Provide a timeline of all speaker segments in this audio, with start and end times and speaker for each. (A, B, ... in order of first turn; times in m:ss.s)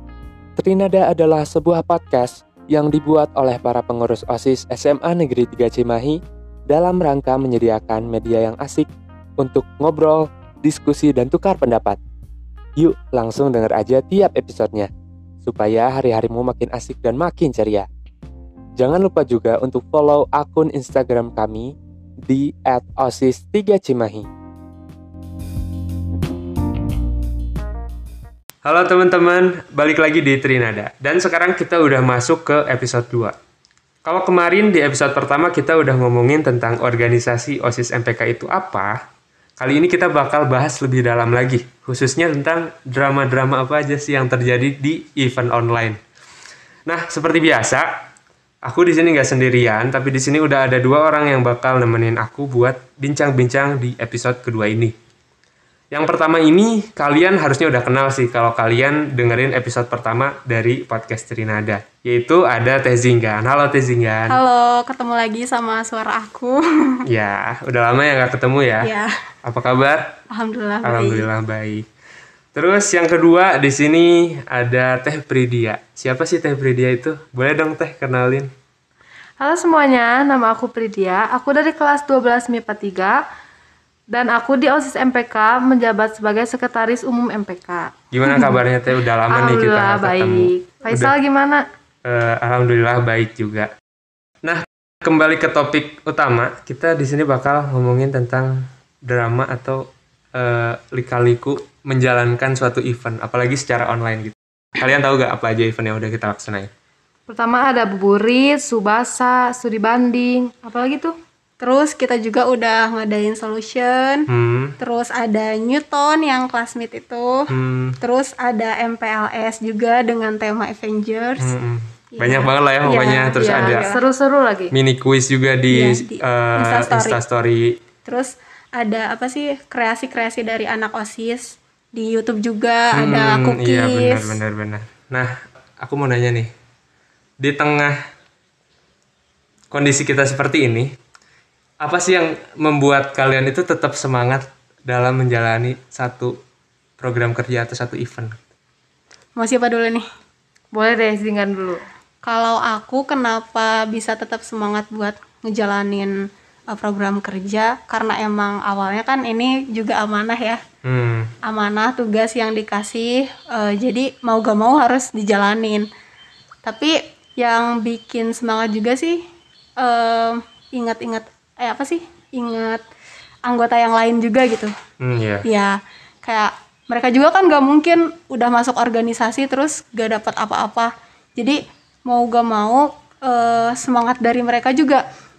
0:00.6-0:08.9 A
0:09.4-0:12.0 A
0:12.8-0:14.9 A
0:15.4-0:17.9 A
0:18.8-0:21.7 A
0:22.2-0:24.3 A
0:28.6-0:33.3 B
0:34.0-0:38.9 B
0:39.6-0:46.0 B
0:46.9-0:47.9 B
0:48.6-0:54.9 B
0:55.9-1:04.4 B
1:04.3-1:07.0 C
1:07.1-1:08.9 B
1:08.8-1:09.1 C
1:09.4-1:10.1 B
1:10.3-1:11.3 C
1:10.8-1:11.8 B
1:12.5-1:18.5 B
1:19.4-1:23.2 D
1:24.1-1:27.9 D
1:28.1-1:31.1 B
1:29.3-1:31.6 D
1:32.0-1:33.7 B
1:34.4-1:46.7 B
1:47.3-1:51.1 D
1:51.6-2:01.5 C
1:54.3-1:54.7 B
1:57.5-1:58.0 B
2:01.4-2:03.9 B
2:02.2-2:04.0 C
2:03.0-2:04.7 D
2:04.7-2:07.8 B
2:05.7-2:07.2 C
2:08.0-2:14.4 C
2:12.9-2:15.3 B
2:15.8-2:16.5 B
2:17.4-2:17.9 B
2:19.7-2:20.9 B
2:21.8-2:26.3 B
2:27.0-2:28.4 B
2:29.4-2:30.0 C
2:30.7-2:31.8 D
2:32.2-2:40.6 C
2:40.8-2:41.3 B
2:41.4-2:45.9 C
2:46.6-2:49.2 C
2:49.8-2:52.8 C
2:53.4-2:54.7 C
2:55.0-2:55.4 B
2:55.4-3:05.0 C